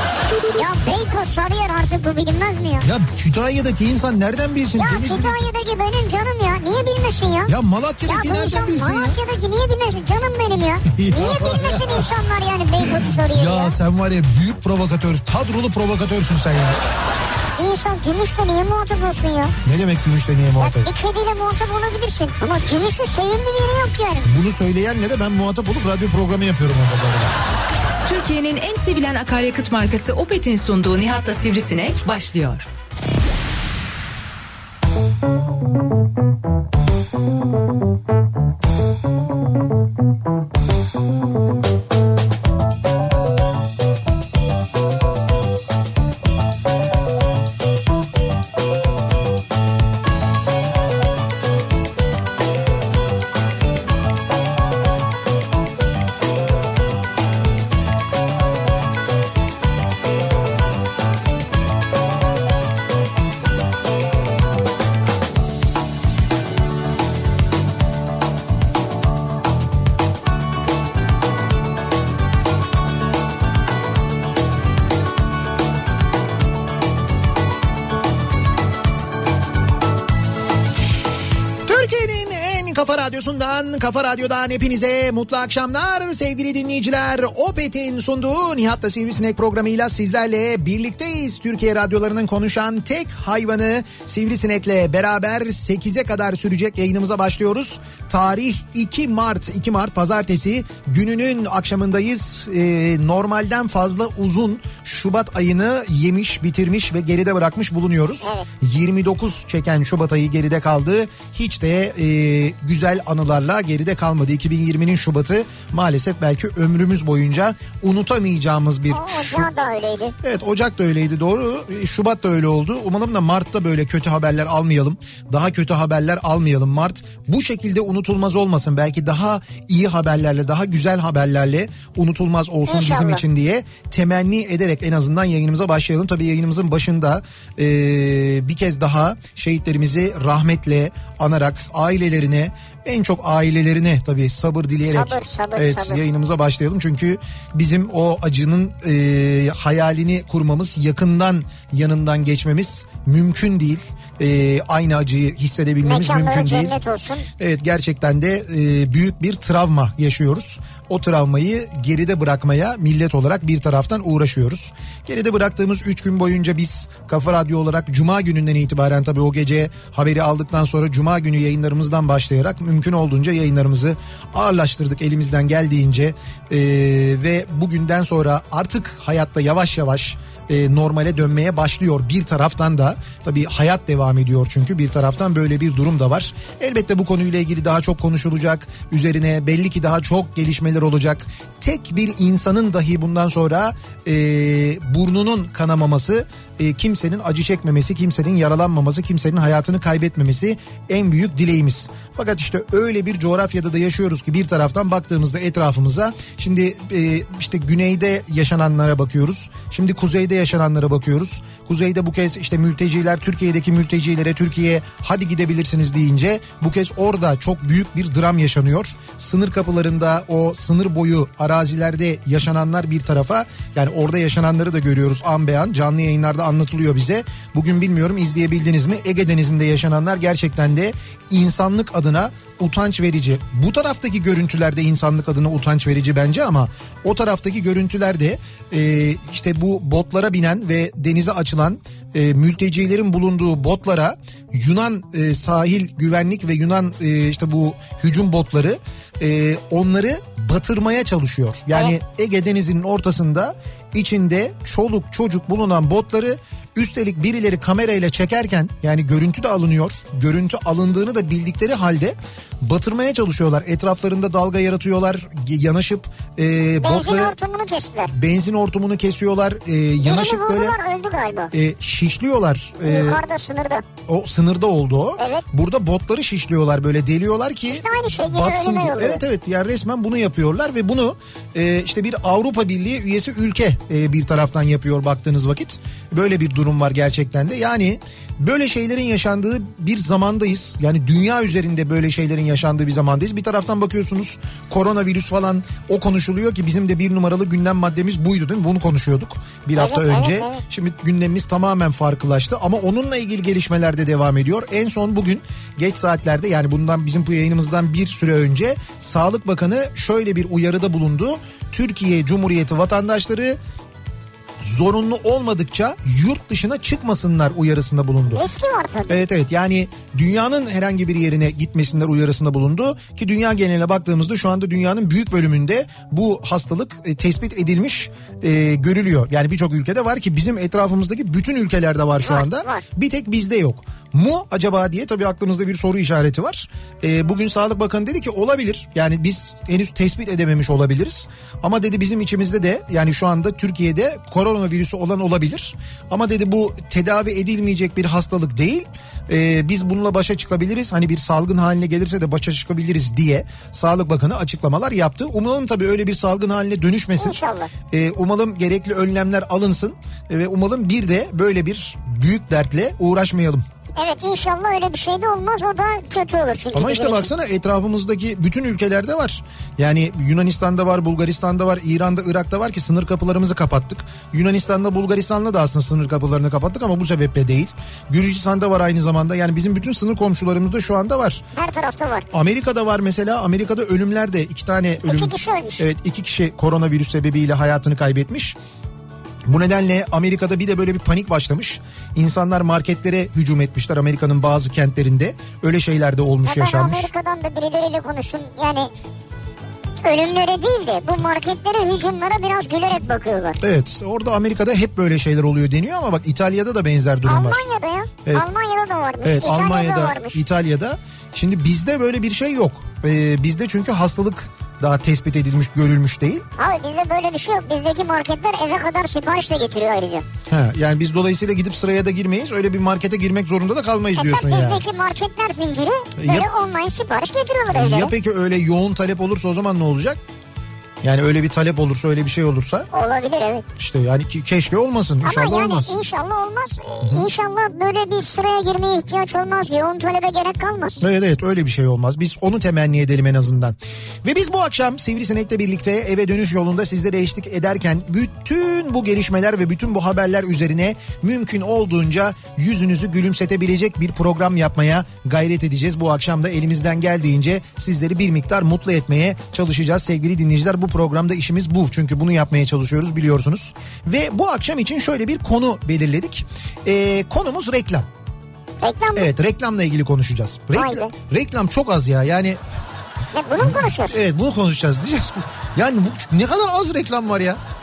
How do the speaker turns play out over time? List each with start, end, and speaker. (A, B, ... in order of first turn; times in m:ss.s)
0:00.4-0:02.9 A
0:02.8-0:05.4 B
0:04.8-0:13.8 A
0:07.5-0:09.2 B
0:10.9-0:12.1 B
0:12.8-0:16.8 B
0:17.6-0:19.6 A
0:19.6-0:20.9 B
0:20.6-0:24.3 A
0:24.2-0:27.4 B
0:28.0-0:32.7 C
1:21.7-1:59.5 B
1:58.9-2:00.2 A
2:00.2-2:36.8 B
2:12.7-2:13.2 A
2:24.9-2:26.0 A
2:35.8-2:37.3 A
2:37.4-4:27.4 B
4:26.8-4:28.1 A
4:28.1-4:30.8 B
4:30.0-4:31.5 A
4:31.5-4:33.2 B
4:32.8-4:33.8 A
4:34.1-5:13.6 B
4:35.2-4:35.4 A
4:37.7-4:39.2 A
4:59.8-5:00.6 A
5:14.6-5:18.4 B
5:18.3-5:19.2 A
5:19.1-5:57.4 B
5:32.2-5:32.8 A
5:57.2-5:57.7 A
5:57.9-6:03.6 B
6:04.0-6:07.3 A
6:06.7-6:21.4 B
6:21.6-6:22.3 A
6:22.3-6:28.6 B
6:25.0-6:25.8 A
6:29.5-6:37.1 B
6:36.4-6:38.9 A
6:40.0-6:43.6 A
6:43.6-6:47.6 B
6:47.2-6:50.4 A
6:49.2-6:56.5 B
6:56.6-7:00.3 A
7:00.5-7:04.8 B
7:04.2-7:08.1 A
7:06.2-7:06.5 B
7:07.7-7:10.2 B
7:11.0-7:12.9 B
7:12.9-7:13.6 A
7:13.8-7:16.0 B
7:15.2-7:21.0 A
7:21.0-7:48.1 B
7:48.8-7:49.3 A
7:49.2-7:52.6 B
7:50.7-7:51.1 A
7:53.3-7:54.2 A
7:53.6-7:57.6 B